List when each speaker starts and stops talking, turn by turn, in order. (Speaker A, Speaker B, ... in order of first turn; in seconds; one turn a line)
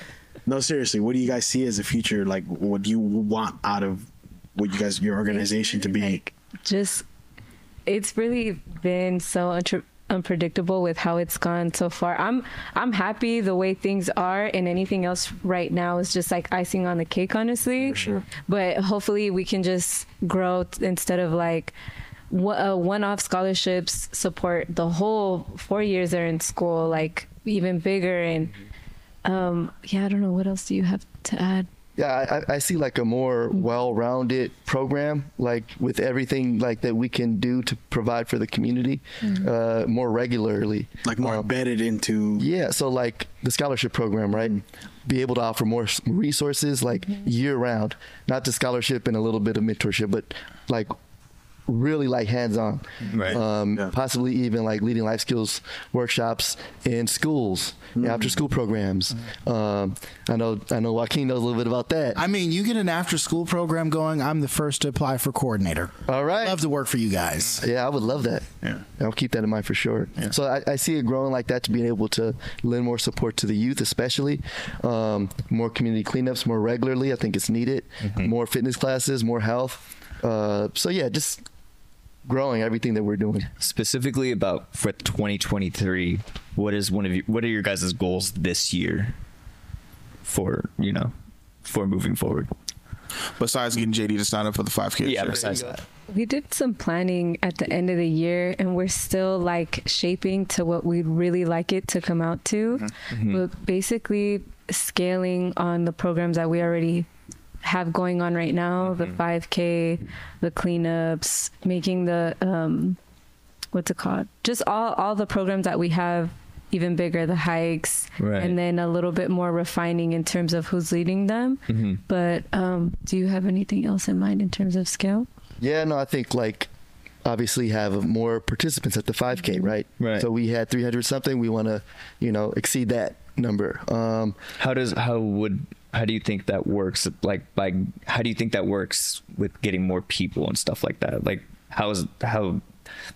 Speaker A: 0.5-6.2
Speaker B: 5.3-7.0
Speaker B: 7.8-21.7
Speaker A: 17.9-18.2
Speaker B: 22.3-28.5
Speaker B: 29.2-31.7
Speaker C: 32.0-41.5
Speaker A: 41.0-42.5
Speaker C: 42.4-50.9
Speaker C: 51.7-62.2
Speaker D: 53.1-53.4
Speaker A: 58.0-58.3
Speaker E: 62.1-67.6
Speaker C: 66.1-66.6
Speaker C: 67.6-81.4
Speaker C: 82.2-83.5
Speaker D: 83.6-89.1
Speaker D: 90.2-91.1
Speaker D: 91.6-92.5
Speaker F: 93.4-95.5
Speaker D: 95.0-95.8
Speaker C: 95.3-95.8
Speaker B: 96.1-107.1
Speaker D: 103.1-103.4
Speaker B: 107.6-113.0
Speaker B: 113.7-125.3
Speaker D: 118.2-118.5
Speaker D: 121.7-122.0
Speaker C: 125.6-126.7
Speaker C: 127.2-134.4
Speaker D: 130.0-130.3
Speaker D: 134.6-142.6